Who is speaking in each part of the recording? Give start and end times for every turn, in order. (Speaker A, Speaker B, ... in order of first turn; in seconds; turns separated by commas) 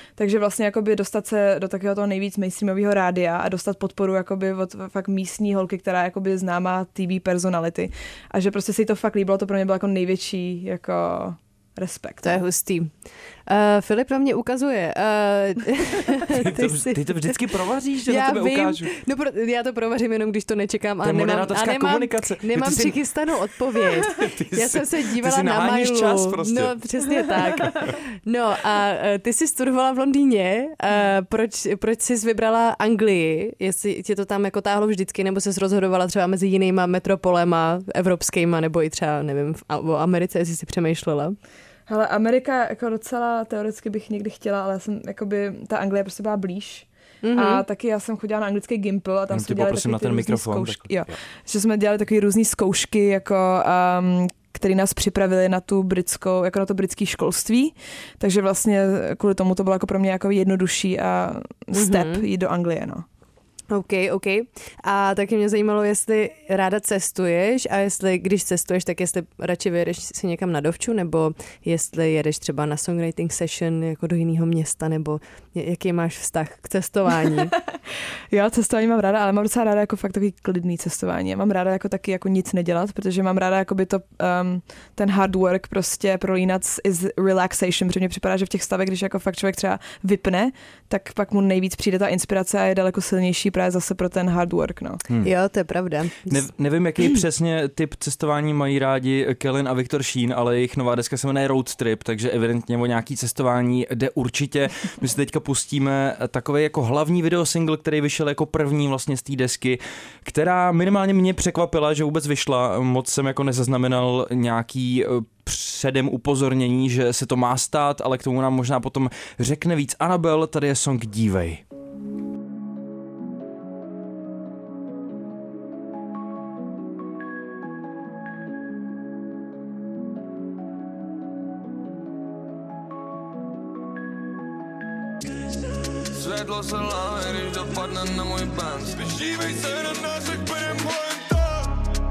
Speaker A: 0.2-12.4, Speaker B: 12.2-12.9, Speaker B: 13.5-17.4, Speaker C: 16.3-18.9, Speaker B: 18.1-41.4, Speaker C: 21.0-23.0, Speaker C: 24.1-26.8, Speaker A: 41.9-63.0, Speaker B: 47.2-47.6, Speaker C: 49.3-51.2, Speaker B: 61.7-62.3, Speaker B: 63.7-77.5, Speaker A: 78.3-95.0, Speaker B: 95.2-96.5, Speaker C: 96.3-121.6, Speaker D: 136.1-141.8